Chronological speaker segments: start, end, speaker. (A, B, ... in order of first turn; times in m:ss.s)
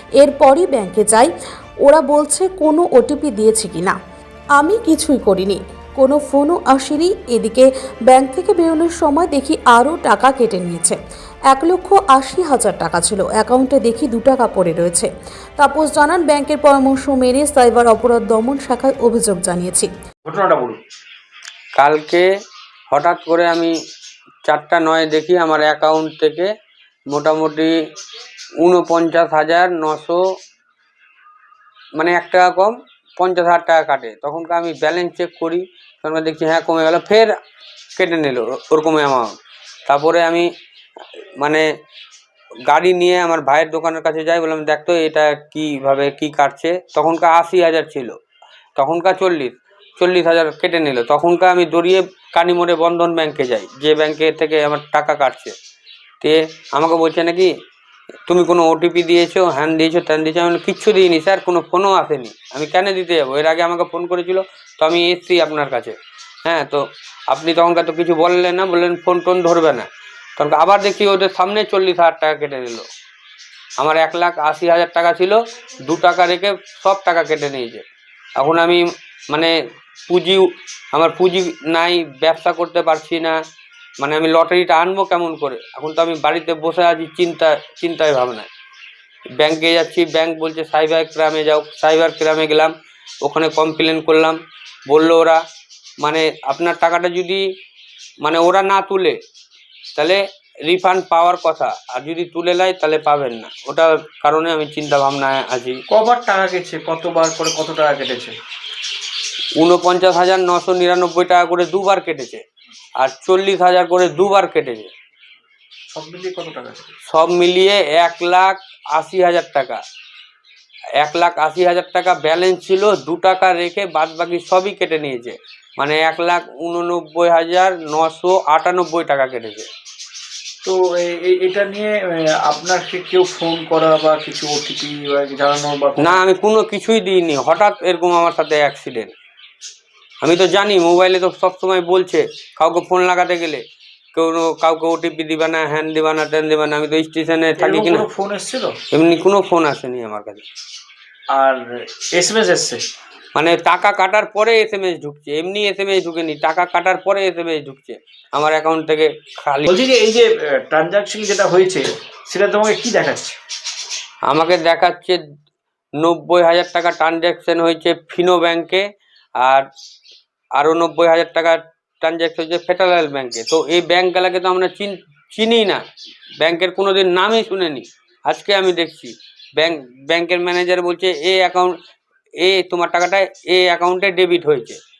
0:00.2-0:01.3 A
0:01.8-0:04.0 A
0:04.6-0:11.0 A
0:11.5-0:19.9 A
0:20.2-0:20.8 B
0:21.8-0:22.2 C
0:22.9-0:23.7 C
0:24.4-0:26.5 C
0:27.1-0:27.8 C
0:28.6-0:30.2 C
0:32.0-0:37.3 C
0:38.0-0:39.3 C
0:39.9-0:40.5 C
0:42.7-0:48.1 C
0:48.8-0:55.5 C
0:56.2-0:57.5 C
0:58.3-1:05.9 C
1:06.4-1:09.9 C
1:10.4-1:12.9 C
1:13.8-1:17.8 C
1:18.4-1:19.5 C
1:20.1-1:23.4 C
1:24.0-1:28.5 C
1:29.4-1:34.4 C
1:34.9-1:35.4 C
1:36.0-1:37.4 C
1:38.2-1:39.2 C
1:40.0-1:45.8 C
1:45.9-1:48.4 B
1:49.6-1:52.4 C
1:53.0-1:54.9 C
1:55.9-1:56.9 B
1:57.1-1:59.8 C
2:01.0-2:09.7 C
2:10.6-2:16.2 B
2:16.0-2:19.1 C
2:20.2-2:23.6 C
2:24.1-2:28.1 C
2:27.6-2:28.8 B
2:28.9-2:30.4 C
2:31.3-2:32.8 B
2:33.3-2:39.7 C
2:39.6-2:43.4 B
2:44.3-2:45.2 C
2:46.0-2:48.8 C
2:49.4-2:49.6 C
2:50.6-2:55.8 C
2:56.4-3:01.7 C
3:02.4-3:04.8 C